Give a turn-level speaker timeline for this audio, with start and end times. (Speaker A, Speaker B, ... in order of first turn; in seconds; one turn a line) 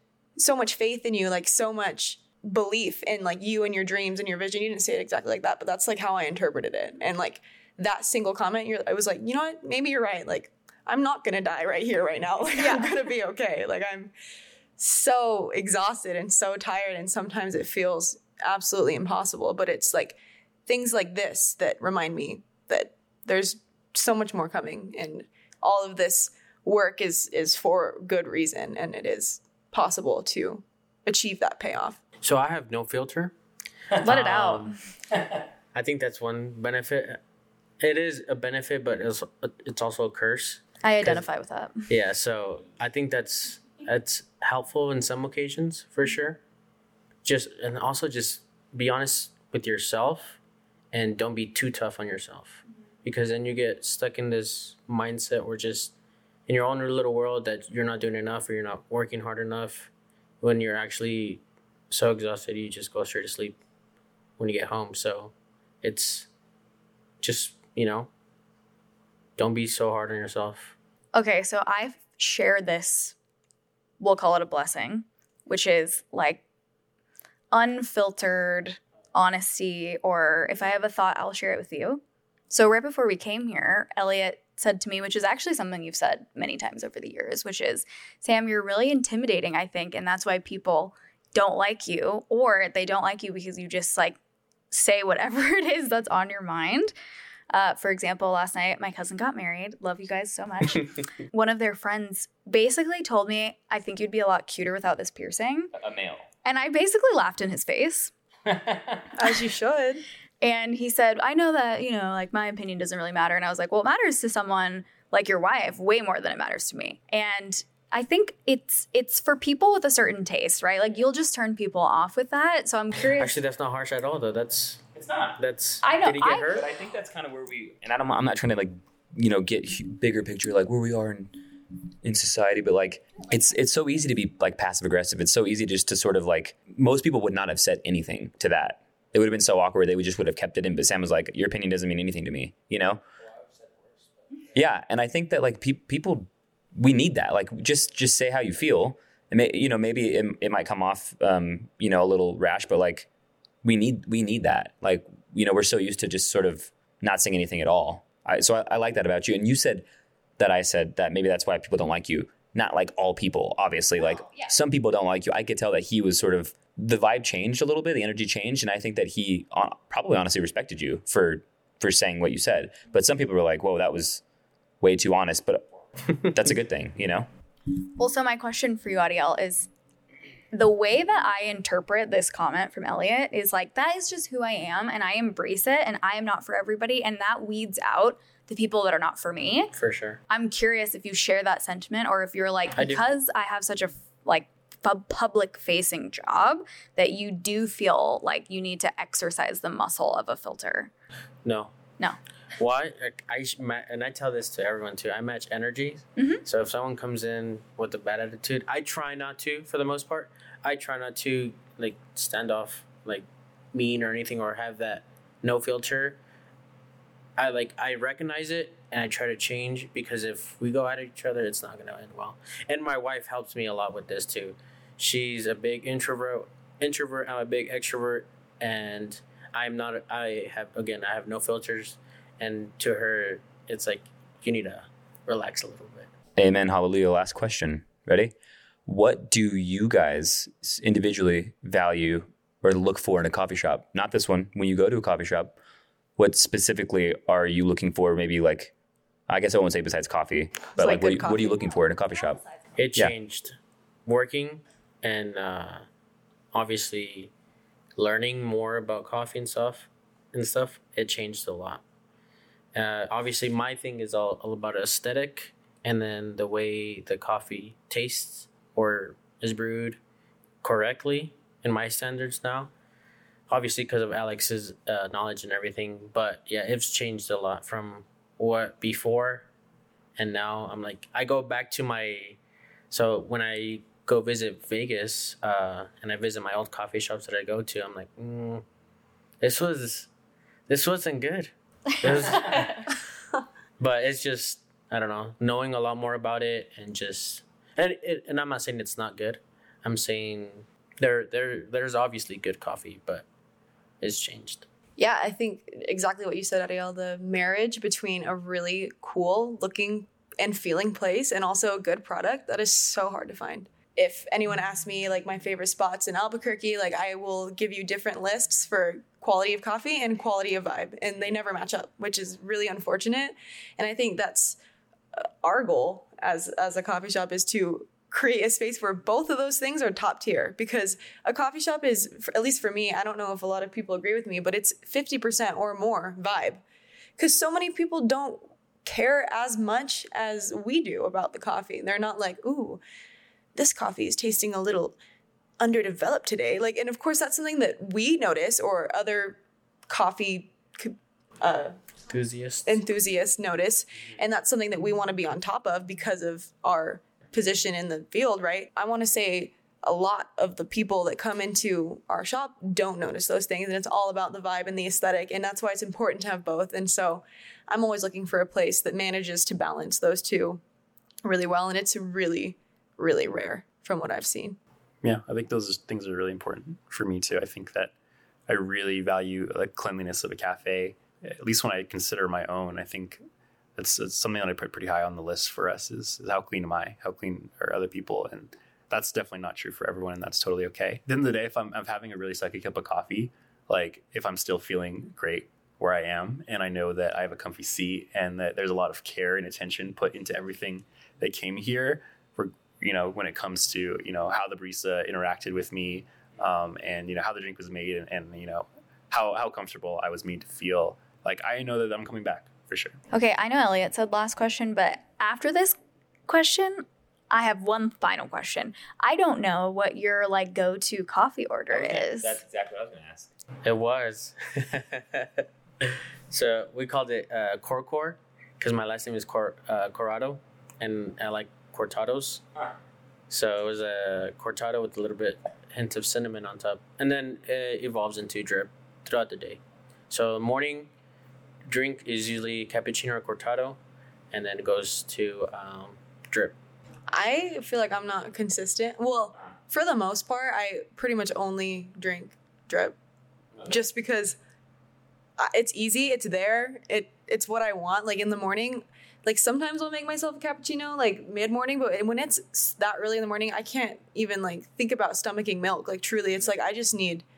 Speaker A: 0.3-14.1
Speaker B: 12.5-13.0
Speaker A: 14.8-32.0
Speaker C: 32.2-33.3
Speaker C: 33.9-34.7
Speaker B: 34.0-34.7
Speaker C: 35.7-37.2
Speaker C: 37.8-41.2
Speaker B: 40.8-41.9
Speaker C: 41.9-46.4
Speaker C: 47.2-50.4
Speaker C: 50.9-55.9
Speaker C: 56.5-63.5
Speaker C: 64.4-66.3
Speaker C: 67.2-68.1
Speaker C: 69.4-70.7
Speaker B: 71.1-73.1
Speaker B: 74.0-76.4
Speaker B: 77.5-94.2
Speaker B: 94.7-96.9
Speaker B: 97.5-105.7
Speaker D: 105.7-106.2
Speaker B: 106.4-108.1
Speaker D: 108.5-109.1
Speaker A: 109.2-110.0
Speaker B: 110.4-123.3
Speaker C: 123.2-124.8
Speaker D: 124.9-125.4
Speaker C: 125.4-126.7
Speaker B: 125.8-126.6
Speaker D: 126.4-131.3
Speaker D: 132.0-143.0
Speaker D: 144.5-153.1
Speaker D: 153.6-159.8
Speaker D: 160.4-174.2
Speaker D: 174.8-175.7
Speaker D: 176.2-177.3
Speaker B: 178.0-179.7
Speaker B: 180.5-189.7
Speaker C: 189.7-190.2
Speaker B: 190.3-200.9
Speaker C: 192.8-193.0
Speaker C: 201.4-201.7
Speaker C: 202.6-216.2
Speaker B: 206.2-206.4
Speaker C: 217.4-236.1
Speaker D: 236.4-238.3
Speaker D: 238.8-245.6
Speaker D: 246.2-248.7
Speaker D: 249.3-252.4
Speaker A: 250.7-251.6
Speaker C: 252.8-253.5
Speaker C: 254.1-255.8
Speaker C: 256.5-257.3
Speaker C: 257.9-261.8
Speaker C: 262.7-270.0
Speaker C: 270.6-272.7
Speaker C: 273.5-279.5
Speaker C: 280.2-282.4
Speaker C: 282.9-288.6
Speaker C: 289.4-290.1
Speaker C: 290.7-292.9
Speaker C: 293.8-303.2
Speaker C: 304.0-304.6
Speaker A: 305.0-324.6
Speaker A: 325.2-336.6
Speaker A: 337.2-342.8
Speaker A: 343.5-345.0
Speaker A: 345.6-351.8
Speaker C: 352.1-352.8
Speaker A: 352.6-370.6
Speaker A: 371.2-374.6
Speaker E: 375.0-377.9
Speaker E: 378.5-383.2
Speaker E: 383.8-413.0
Speaker B: 413.1-415.8
Speaker B: 416.3-422.4
Speaker D: 421.7-423.3
Speaker C: 423.6-432.4
Speaker C: 433.3-440.9
Speaker C: 441.6-443.8
Speaker C: 444.3-446.5
Speaker A: 447.1-452.9
Speaker A: 453.6-454.4
Speaker A: 455.4-467.2